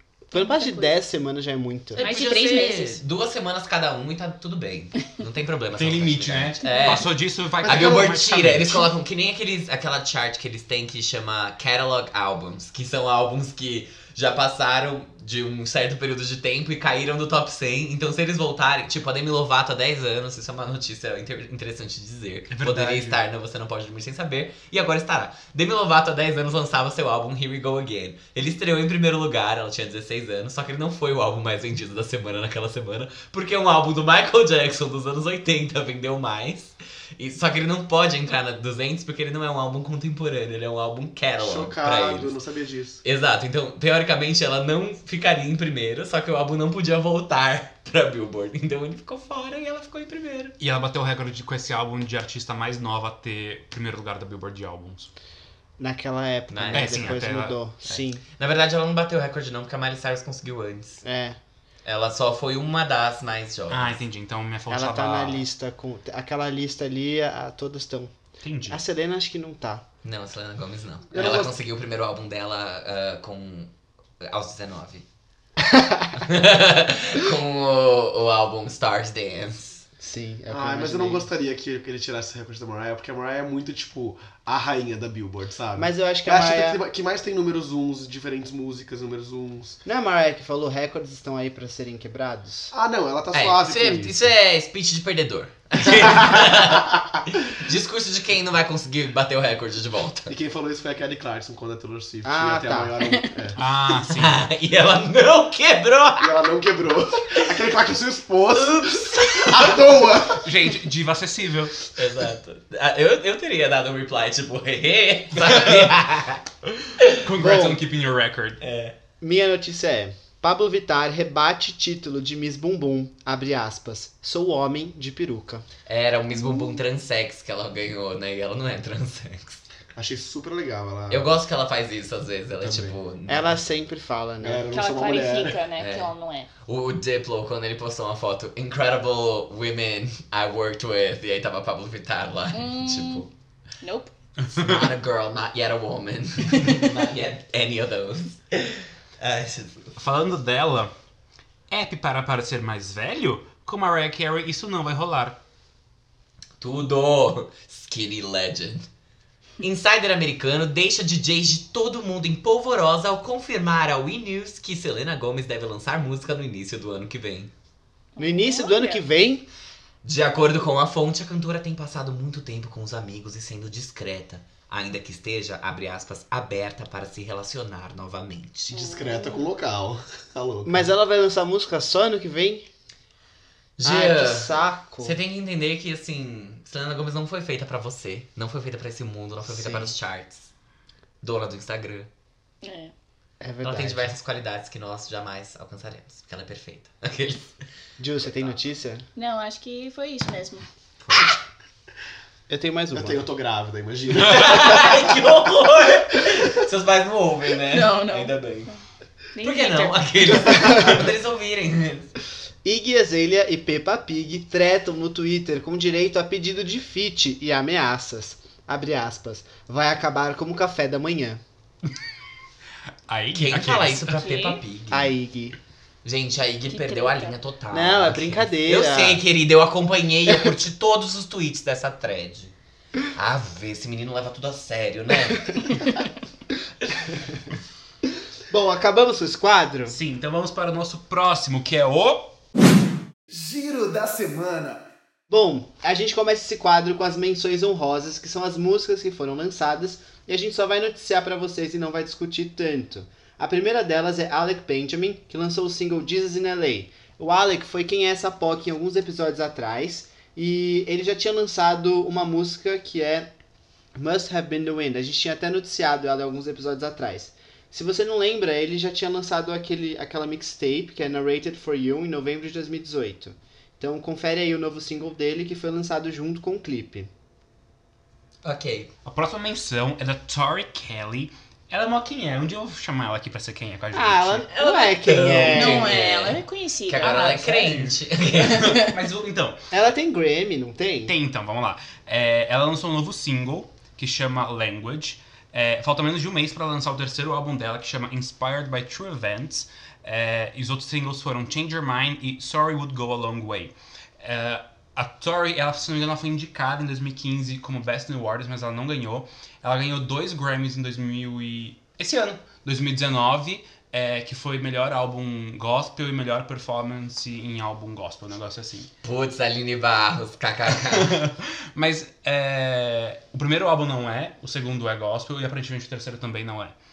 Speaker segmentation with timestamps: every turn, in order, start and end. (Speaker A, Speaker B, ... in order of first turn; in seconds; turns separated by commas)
Speaker A: 0.3-2.0, Speaker B: 0.3-1.0, Speaker C: 1.9-7.1, Speaker B: 2.0-3.0, Speaker D: 5.8-8.9, Speaker B: 6.6-7.1, Speaker E: 7.6-8.2, Speaker C: 7.6-42.4, Speaker D: 22.5-23.2, Speaker E: 41.4-43.0, Speaker C: 43.0-50.5, Speaker D: 50.6-55.1, Speaker A: 55.8-58.2, Speaker C: 56.5-57.2, Speaker D: 56.7-57.5, Speaker C: 57.9-61.0, Speaker A: 61.0-61.4, Speaker C: 61.8-64.0, Speaker D: 63.7-65.4, Speaker A: 64.7-68.1, Speaker D: 68.4-68.8, Speaker A: 68.7-69.8, Speaker C: 70.0-75.0, Speaker E: 71.1-71.5, Speaker A: 75.6-76.1, Speaker C: 76.2-79.8, Speaker A: 80.0-81.2, Speaker E: 80.5-89.8, Speaker A: 85.8-86.8, Speaker A: 89.8-92.7, Speaker E: 92.7-94.3, Speaker C: 93.3-100.3, Speaker E: 96.2-96.8, Speaker E: 100.3-103.6, Speaker A: 102.2-103.0, Speaker B: 103.0-103.3, Speaker D: 103.5-104.4, Speaker C: 104.0-106.4, Speaker E: 106.2-110.5, Speaker C: 108.5-110.2, Speaker D: 110.4-111.8, Speaker C: 111.9-116.4, Speaker D: 115.4-115.9, Speaker D: 116.9-118.6, Speaker A: 117.4-117.8, Speaker C: 118.6-119.0, Speaker A: 119.2-125.7, Speaker C: 125.8-129.6, Speaker E: 129.9-131.3, Speaker C: 131.1-133.6, Speaker E: 132.6-132.9, Speaker A: 133.3-134.6, Speaker E: 134.4-135.6, Speaker B: 134.7-136.5, Speaker C: 135.8-136.1, Speaker C: 136.6-143.3, Speaker B: 142.5-143.3, Speaker B: 143.8-144.1, Speaker D: 144.4-144.9, Speaker C: 144.5-149.9, Speaker D: 150.0-150.9, Speaker D: 151.7-155.4, Speaker C: 156.6-158.8, Speaker C: 159.6-167.5, Speaker B: 168.2-169.0, Speaker A: 168.2-169.5, Speaker C: 170.0-178.8, Speaker B: 178.7-179.5, Speaker E: 178.7-180.9, Speaker A: 180.6-182.7, Speaker C: 183.8-190.5, Speaker A: 183.8-185.2, Speaker A: 189.5-189.9, Speaker C: 191.2-192.1, Speaker B: 192.6-192.9, Speaker A: 193.4-194.1, Speaker C: 193.6-197.5, Speaker A: 198.0-199.0, Speaker B: 199.2-200.6, Speaker A: 202.5-203.2, Speaker E: 202.9-205.2, Speaker C: 204.2-208.7, Speaker B: 207.7-208.8, Speaker B: 209.3-210.0, Speaker C: 209.4-212.1, Speaker A: 212.6-221.4, Speaker D: 223.1-224.3, Speaker C: 223.3-225.1, Speaker B: 224.2-224.6, Speaker A: 224.9-225.6, Speaker C: 226.0-232.5, Speaker B: 226.7-227.3, Speaker A: 227.7-229.2, Speaker C: 233.1-235.8, Speaker A: 238.5-240.0, Speaker D: 239.9-242.3, Speaker E: 243.3-244.8, Speaker A: 245.3-263.3, Speaker A: 263.9-277.1, Speaker C: 278.4-278.9, Speaker D: 279.0-284.5, Speaker A: 283.9-286.1, Speaker C: 284.5-288.8, Speaker B: 285.5-287.8, Speaker D: 287.0-289.6, Speaker B: 288.5-288.9, Speaker A: 289.7-291.1, Speaker D: 291.1-318.9, Speaker C: 319.0-321.2, Speaker D: 320.7-326.7